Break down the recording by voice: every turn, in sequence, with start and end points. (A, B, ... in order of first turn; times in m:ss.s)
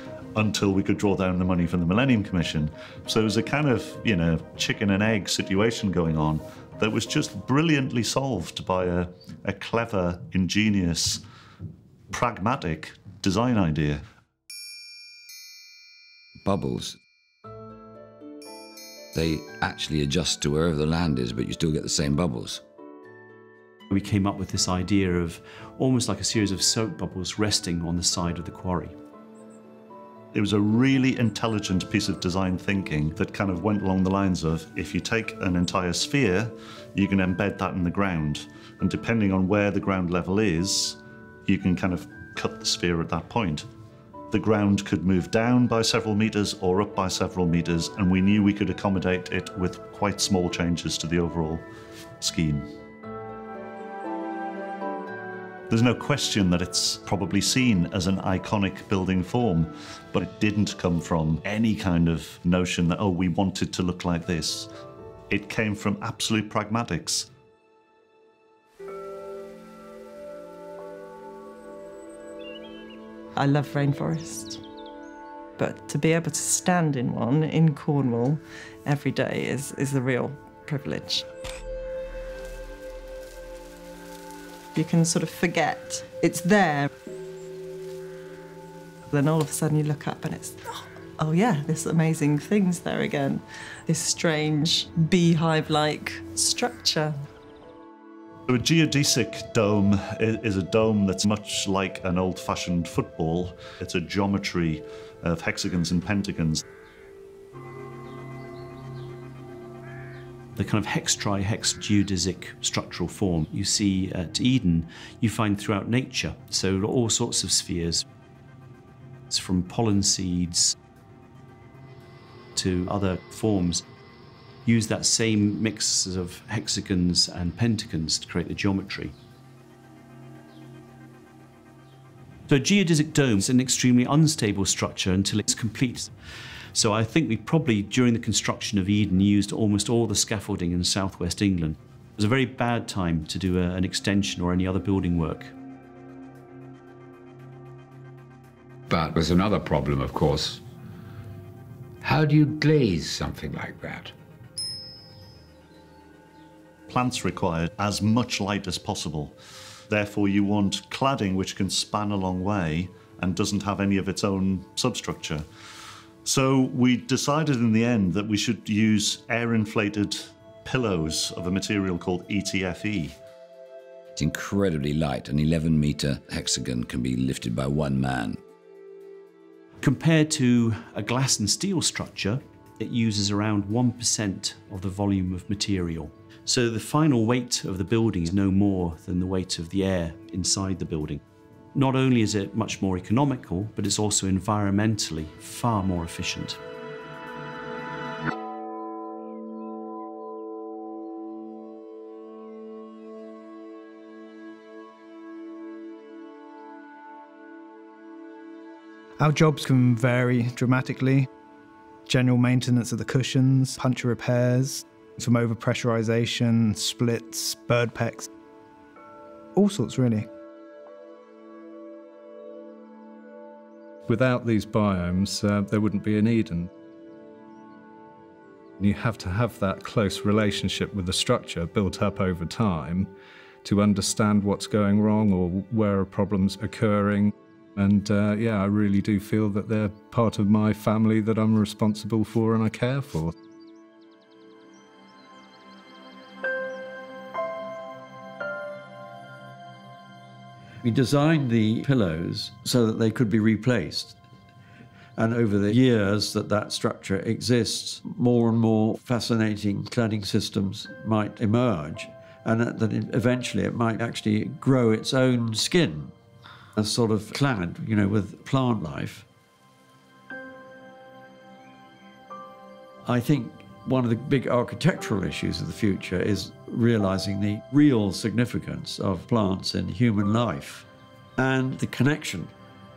0:00.3-0:11.2 A
0:12.1-0:14.0 A
0:16.4-0:17.0 B
0:19.1-0:22.6 B
0:23.9-0:28.9 C
0:30.3-0:43.6 A
0:44.3-0:51.6 A
0:52.2-0:52.7 A
0:55.7-1:04.7 A
1:05.3-1:07.3 A
1:13.4-1:14.6 D
1:15.6-1:21.2 D
1:24.7-1:26.9 D
1:29.1-1:37.1 D
1:38.5-1:46.6 A
1:50.6-1:58.0 C
1:59.3-2:00.7 C
2:02.5-2:03.8 C
2:04.6-2:09.1 C
2:12.5-2:16.1 C
2:16.7-2:25.5 C
2:28.9-2:30.6 E
2:32.0-2:34.1 E
2:36.9-2:39.4 A
2:39.9-2:45.4 A
2:46.2-2:53.1 A
2:54.2-2:58.4 B
2:59.8-3:11.2 C
3:11.7-3:16.6 C
3:29.2-3:31.3 F
3:32.1-3:38.3 F
3:39.6-3:40.3 F
3:44.1-3:46.7 G
3:48.8-3:53.1 G
3:53.6-4:03.3 G
4:10.8-4:14.2 H
4:15.2-4:26.1 H
4:26.8-4:29.2 H
4:33.0-4:42.5 H